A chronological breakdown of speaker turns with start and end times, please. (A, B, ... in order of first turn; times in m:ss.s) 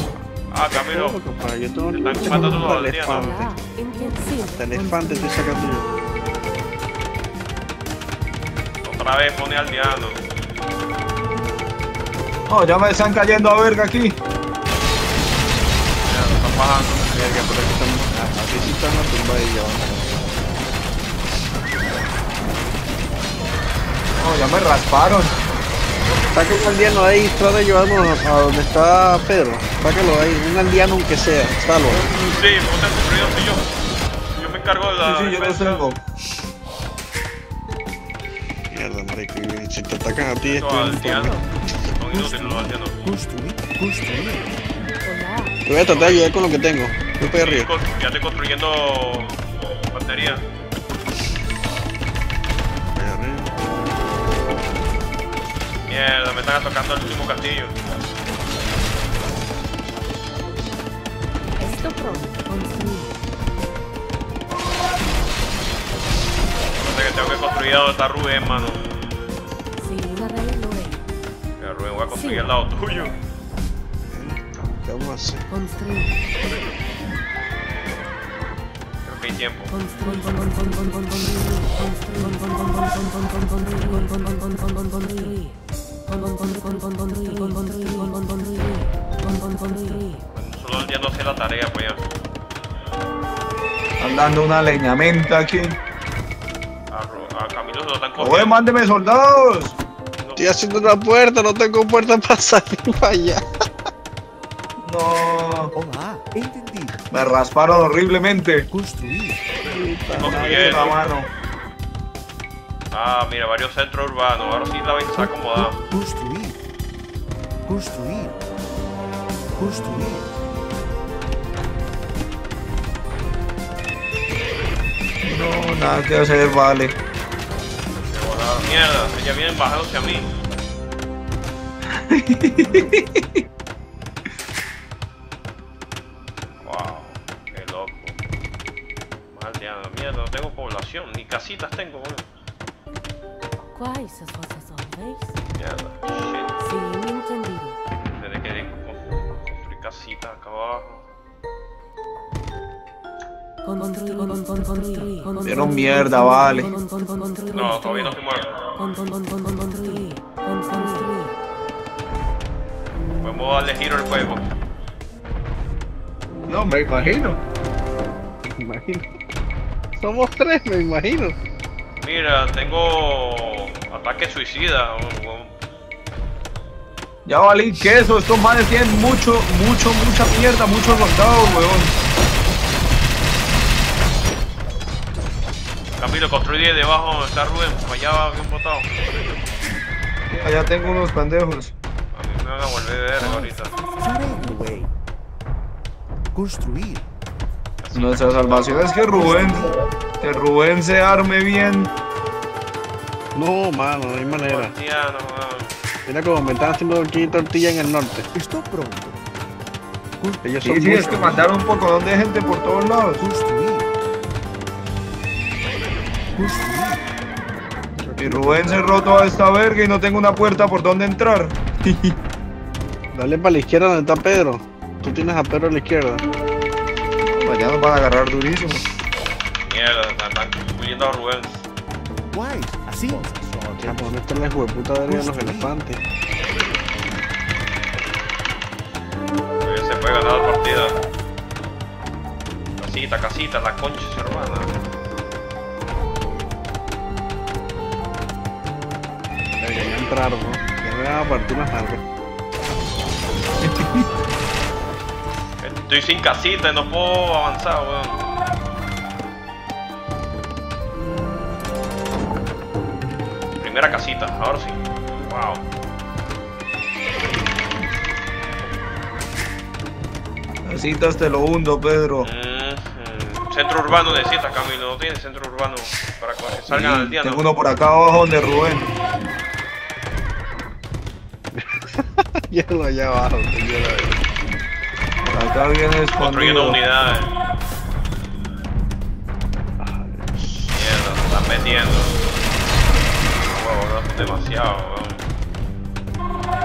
0:00.5-0:01.2 A
0:00.8-0:03.6 B
0:01.9-0:03.4 A
0:02.9-0:05.5 C
0:04.5-0:05.9 B
0:08.8-0:10.2 A
0:12.5-0:14.2 D
0:16.0-0:17.2 A
0:17.1-0:20.2 B
0:24.2-0:25.3 D
0:26.3-0:32.1 B
0:32.1-0:33.7 A
0:34.4-0:35.9 A
0:35.0-0:36.0 D
0:38.7-0:41.9 B
0:40.4-0:41.4 A
0:41.9-0:42.9 A
0:42.2-0:44.6 E
0:45.0-0:45.6 C
0:45.7-0:47.7 B
0:45.9-0:46.4 A
0:47.4-0:49.4 A
0:49.9-0:50.4 A
0:52.9-0:53.6 B
0:55.9-0:58.0 A
1:01.6-1:03.1 C
1:06.8-1:08.8 A
1:09.8-1:11.0 C
1:11.6-1:13.1 A
1:12.1-1:12.5 C
1:14.1-1:15.5 B
1:19.1-1:19.8 A
1:22.1-1:22.4 C
1:23.7-1:24.1 C
1:26.8-1:28.2 C
1:29.5-1:30.0 C
1:30.3-1:32.1 A
1:34.0-1:35.8 D
1:36.9-1:38.6 A
1:38.2-1:39.8 D
1:40.2-1:40.5 A
1:40.4-1:43.4 B
1:44.9-1:45.7 D
1:45.7-1:47.3 E
1:47.1-1:48.6 D
1:48.7-1:50.3 E
1:49.6-1:51.0 B
1:50.2-1:51.0 A
1:50.2-1:51.3 D
1:52.9-1:55.8 A
1:55.8-1:56.6 E
1:57.6-1:58.4 E
1:59.6-2:00.3 E
2:05.2-2:06.9 D
2:08.1-2:10.3 A
2:11.9-2:13.4 D
2:16.6-2:18.2 A
2:19.3-2:22.3 A
2:23.7-2:25.4 C
2:25.6-2:26.5 A
2:26.6-2:27.8 C
2:28.1-2:31.0 A
2:33.7-2:35.5 C
2:35.4-2:36.8 D
2:37.4-2:38.1 C
2:37.5-2:38.6 A
2:39.5-2:41.3 C
2:43.2-2:44.5 A
2:46.5-2:47.4 D
2:47.0-2:47.3 B
2:48.5-2:49.0 B
2:50.0-2:51.4 B
2:52.0-2:55.5 A
2:57.3-3:01.9 D
3:06.0-3:08.9 A
3:10.3-3:11.7 D
3:12.1-3:13.8 A
3:13.2-3:14.9 E
3:13.2-3:14.3 C
3:16.3-3:17.1 E
3:17.8-3:19.3 A
3:17.9-3:21.9 D
3:23.4-3:24.7 B
3:24.4-3:25.8 A
3:26.1-3:28.3 B
3:28.3-3:29.2 E
3:30.2-3:31.2 E
3:30.4-3:31.5 B
3:30.6-3:33.3 D
3:33.2-3:33.9 E
3:36.4-3:37.0 E
3:38.0-3:39.0 B
3:38.2-3:42.1 D
3:43.1-3:46.2 B
3:47.3-3:48.8 D
3:49.7-3:51.7 A
3:52.3-3:54.2 E
3:53.8-3:56.0 B
3:55.1-3:55.8 E
3:59.6-4:01.0 A
4:02.8-4:04.7 A
4:09.6-4:12.0 B
4:13.6-4:14.0 D
4:15.6-4:18.2 A
4:23.6-4:25.6 A
4:30.6-4:32.3 D
4:32.2-4:37.4 A
4:36.7-4:38.9 D
4:41.5-4:44.2 B
4:45.2-4:46.8 D
4:46.2-4:47.3 A
4:49.8-4:50.8 B
4:50.7-4:52.2 A
4:53.4-4:55.3 A